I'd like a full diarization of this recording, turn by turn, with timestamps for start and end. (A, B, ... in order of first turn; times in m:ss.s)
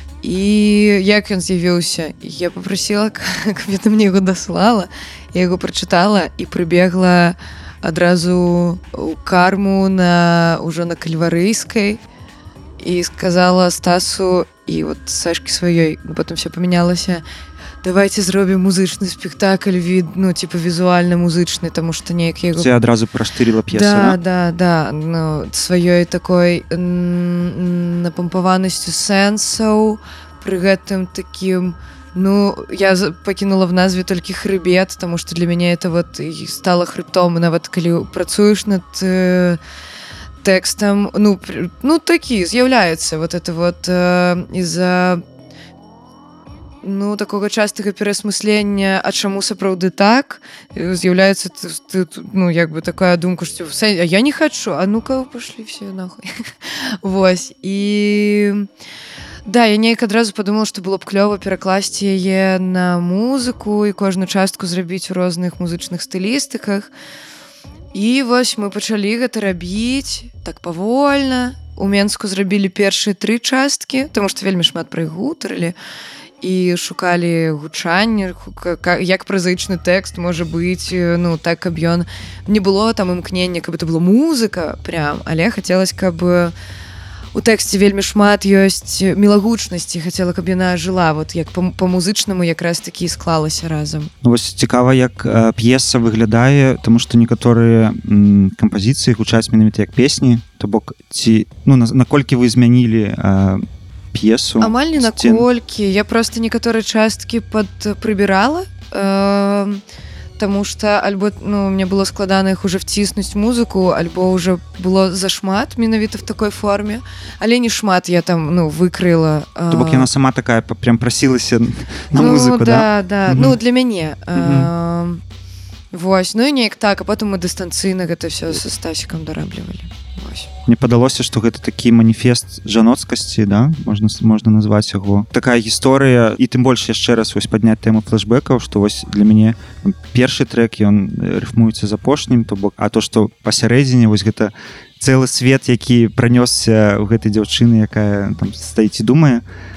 0:00.2-0:12.0 A
0:12.8-0:17.2 A
0:17.8-0:22.8 A
0:22.6-0:24.2 B
0:23.7-0:39.6 A
0:40.4-0:45.2 A
0:46.8-0:58.7 A
0:59.5-1:06.9 A
1:07.9-1:15.8 A
1:16.4-1:26.5 A
1:27.3-1:34.1 A
1:34.2-1:45.5 B
1:44.6-1:49.8 A
1:50.4-2:00.1 A
1:59.7-2:03.6 B
2:02.2-2:05.2 A
2:04.4-2:04.7 B
2:05.9-2:10.5 A
2:10.7-2:29.4 B